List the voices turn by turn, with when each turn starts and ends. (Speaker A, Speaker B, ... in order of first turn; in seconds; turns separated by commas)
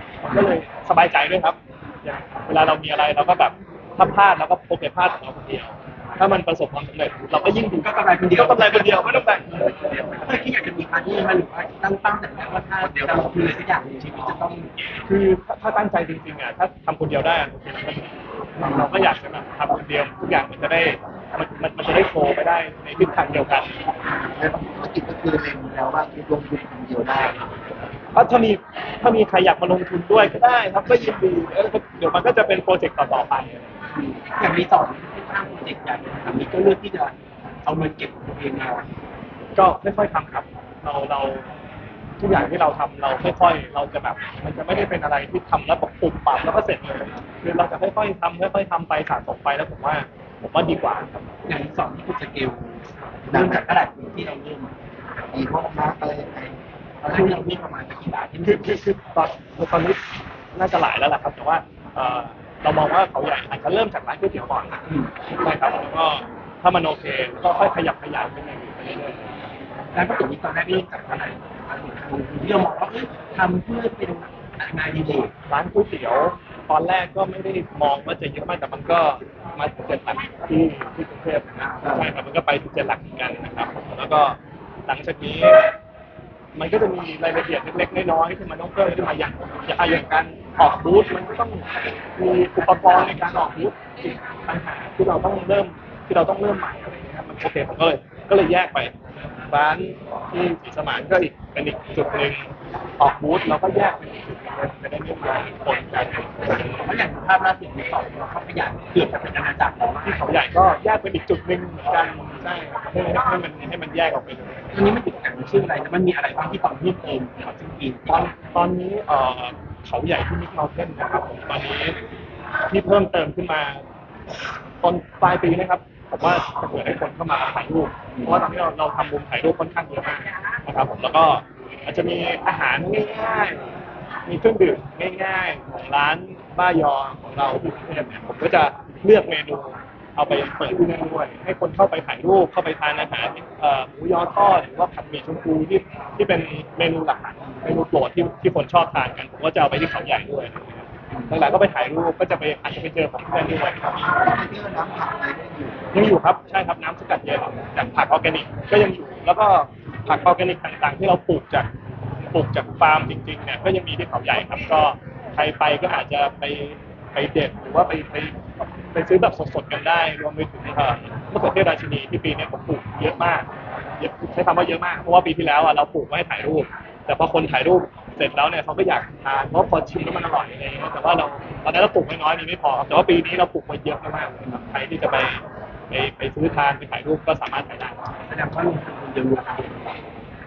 Speaker A: 0.2-10.2, Speaker B: 7.8-9.2, Speaker B: 10.2-14.7, Speaker A: 15.1-23.7, Speaker C: 24.2-27.4, Speaker A: 28.1-33.7, Speaker B: 33.9-37.1, Speaker B: 37.6-38.9, Speaker A: 39.5-41.5, Speaker A: 42.2-51.2, Speaker B: 51.5-54.7, Speaker C: 53.2-53.7, Speaker C: 55.3-57.3, Speaker B: 57.0-58.8, Speaker A: 58.4-60.0, Speaker A: 60.5-64.8, Speaker A: 65.4-69.3, Speaker B: 69.9-75.3, Speaker A: 75.5-85.6, Speaker C: 81.8-82.1, Speaker A: 86.5-91.6, Speaker A: 92.2-98.9, Speaker A: 99.5-106.8, Speaker B: 106.6-110.2, Speaker A: 110.0-114.7, Speaker B: 114.7-118.3, Speaker A: 118.1-122.0, Speaker A: 122.7-123.8, Speaker A: 124.8-154.1, Speaker B: 128.2-128.4, Speaker B: 151.1-151.4, Speaker C: 154.0-155.8, Speaker A: 155.9-161.7, Speaker A: 162.3-168.4, Speaker A: 168.9-188.0, Speaker B: 188.3-190.0